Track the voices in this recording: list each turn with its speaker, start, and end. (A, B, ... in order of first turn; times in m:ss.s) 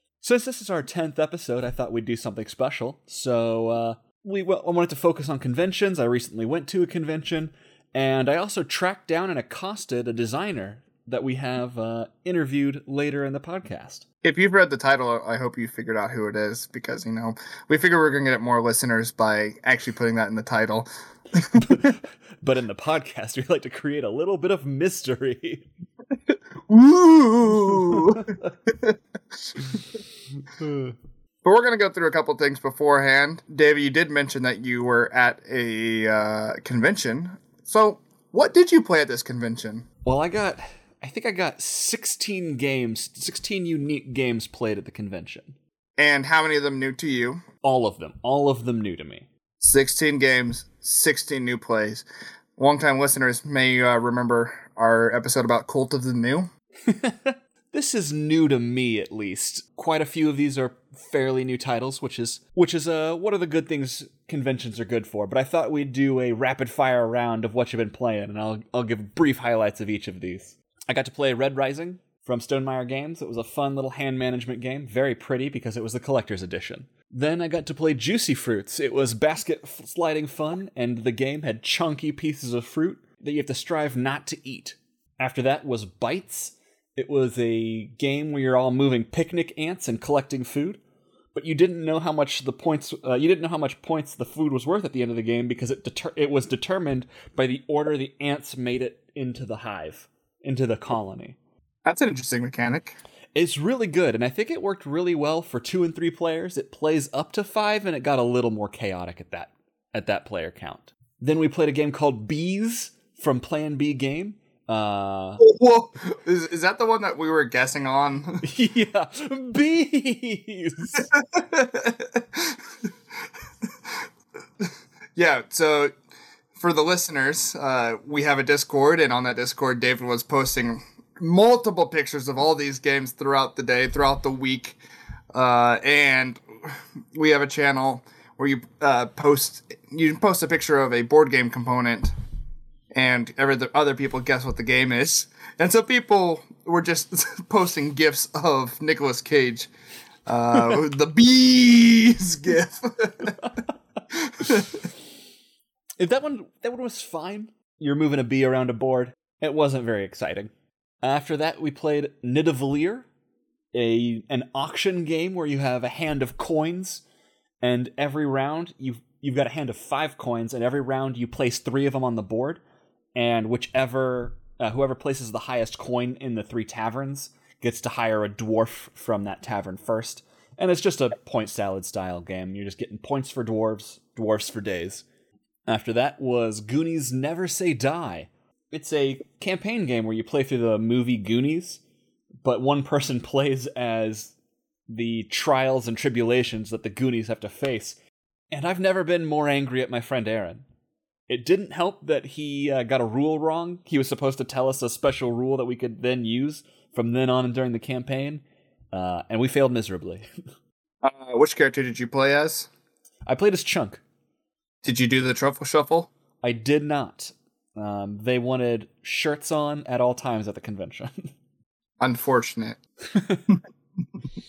0:00.2-0:14.0 A
0:14.2-0:21.8 B
0:21.5-0:25.7 A
0:26.7-0:29.0 B
0:30.6-0:30.9 A
0:31.4-0:39.9 B
0:40.0-0:45.6 A
0:46.0-0:47.4 B
0:47.6-0:49.3 A
0:49.6-0:52.0 B
0:52.6-0:56.5 B
0:56.9-1:30.8 A
1:31.3-1:41.4 A
1:41.8-1:42.9 B
1:43.3-1:55.4 A
1:55.4-1:58.4 B
1:58.4-2:01.1 A
2:00.9-2:02.6 B
2:04.6-2:05.9 B
2:06.6-2:14.8 B
2:15.3-2:22.1 B
2:22.9-2:29.7 B
2:30.2-2:33.4 B
2:34.1-2:34.9 B
2:36.0-2:40.5 A
2:41.0-2:43.0 A
2:43.7-2:47.0 A
2:47.6-2:52.6 A
2:53.1-3:05.0 A
3:05.7-3:11.8 A
3:12.4-3:14.3 A
3:14.9-3:18.0 A
3:18.5-3:20.6 A
3:21.3-3:30.3 A
3:31.0-3:32.7 B
3:33.3-3:34.0 A
3:34.8-3:36.1 B
3:36.4-3:41.3 A
3:42.0-3:42.8 B
3:43.2-3:43.4 A